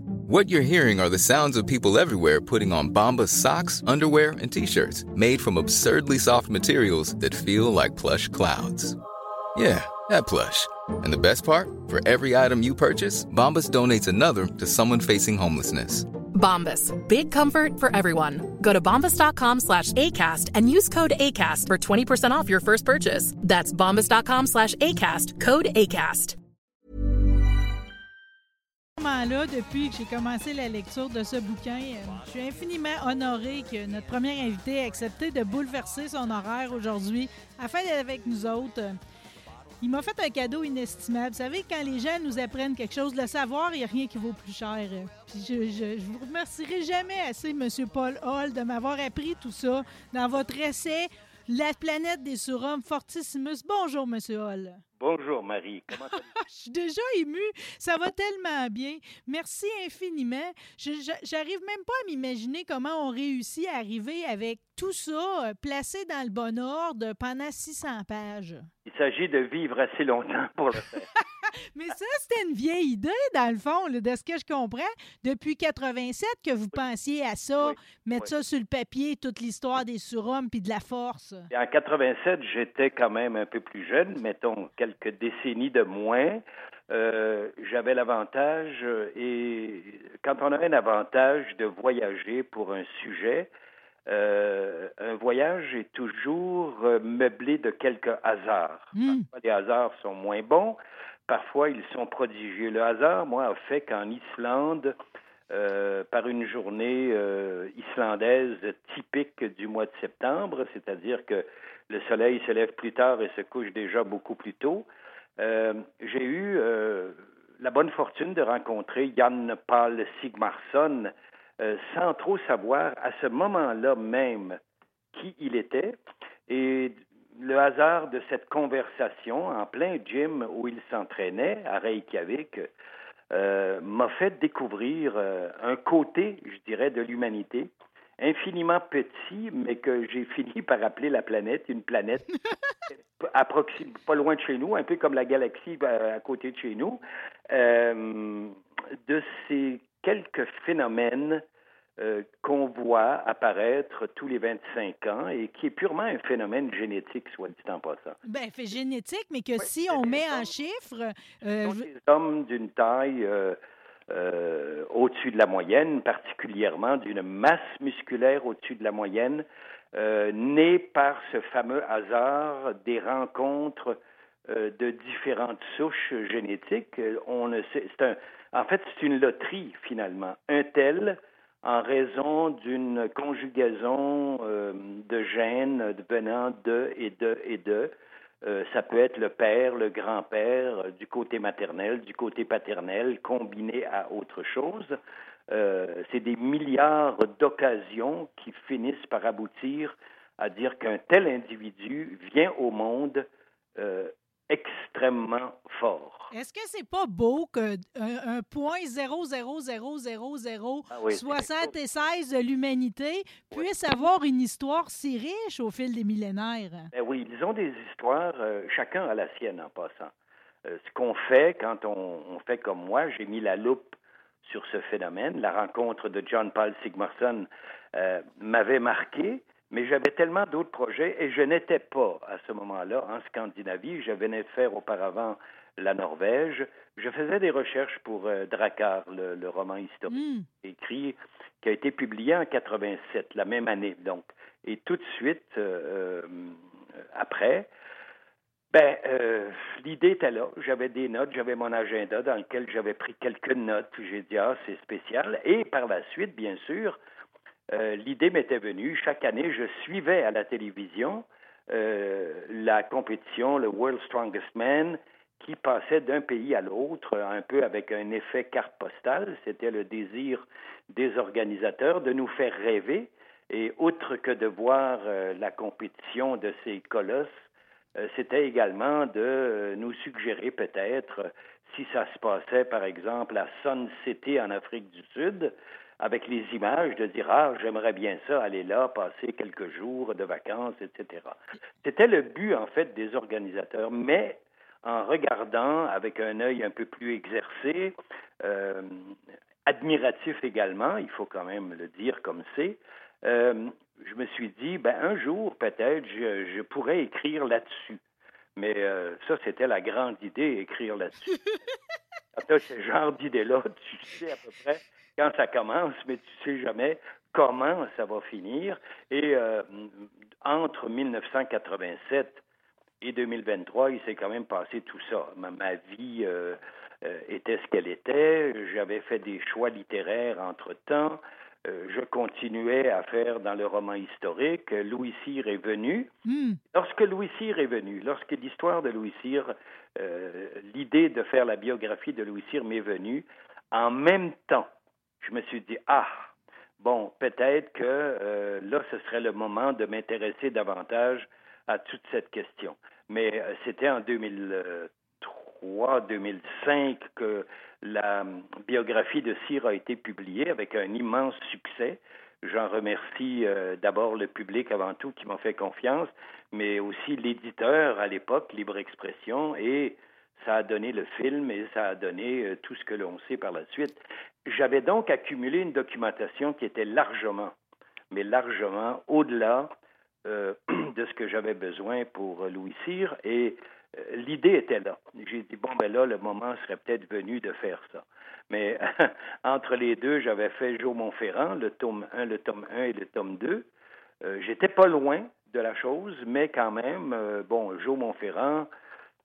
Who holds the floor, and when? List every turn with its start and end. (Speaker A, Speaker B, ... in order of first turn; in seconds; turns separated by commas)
Speaker A: 0.2-9.0, Speaker A: 9.5-16.1, Speaker B: 16.3-26.4, Speaker C: 29.0-39.0, Speaker C: 39.8-54.8, Speaker D: 55.0-56.3, Speaker C: 56.4-68.7, Speaker D: 68.8-71.1, Speaker C: 71.1-81.5, Speaker D: 77.6-78.3, Speaker D: 81.5-93.5, Speaker D: 94.0-104.9, Speaker C: 99.0-99.2, Speaker D: 105.5-114.8, Speaker D: 115.4-124.6, Speaker D: 125.1-126.0, Speaker D: 126.5-132.7, Speaker D: 133.3-142.3, Speaker D: 143.2-151.4, Speaker D: 152.0-158.2, Speaker C: 158.2-161.8, Speaker D: 159.9-160.5, Speaker D: 161.6-163.6, Speaker D: 164.1-187.9, Speaker D: 188.4-194.9, Speaker D: 195.5-206.3, Speaker C: 206.3-216.9, Speaker D: 210.9-211.7, Speaker D: 216.9-220.1, Speaker D: 220.6-246.6, Speaker C: 240.1-240.4, Speaker D: 247.1-247.7, Speaker D: 248.7-257.0, Speaker D: 257.7-299.1, Speaker D: 299.6-308.0, Speaker D: 308.6-311.4, Speaker D: 312.4-322.4, Speaker D: 323.0-336.1, Speaker C: 336.2-336.6, Speaker D: 336.7-344.7, Speaker D: 345.2-377.5, Speaker D: 378.1-379.7, Speaker D: 380.2-393.6, Speaker D: 394.2-398.7